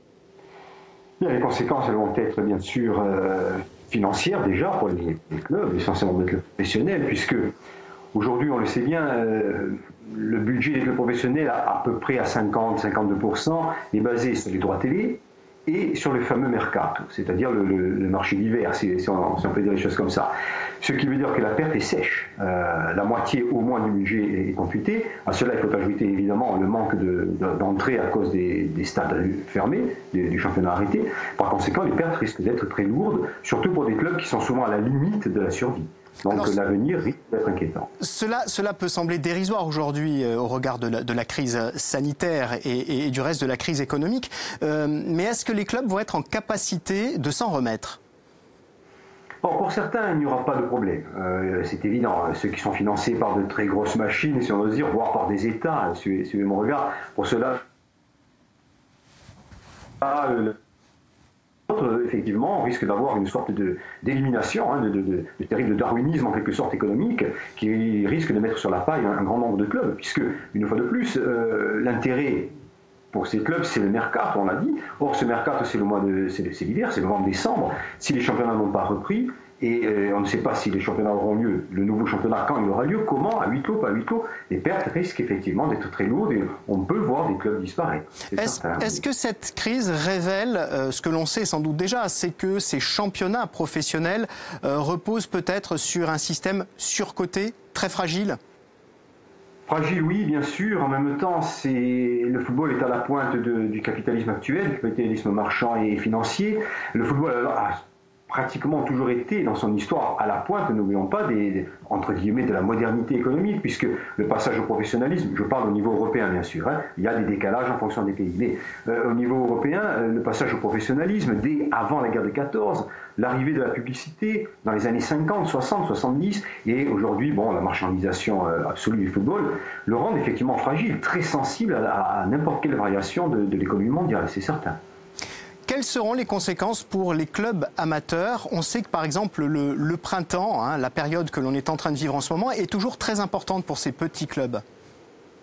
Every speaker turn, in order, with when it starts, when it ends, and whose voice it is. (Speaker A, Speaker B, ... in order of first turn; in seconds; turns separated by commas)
Speaker A: 1.2-7.5, Speaker A: 8.1-37.9, Speaker B: 38.0-48.0, Speaker A: 49.4-57.6, Speaker A: 60.0-60.6, Speaker A: 61.7-72.5, Speaker A: 73.1-89.0, Speaker B: 88.4-98.4, Speaker A: 99.7-107.8, Speaker A: 108.3-134.8, Speaker B: 135.7-144.6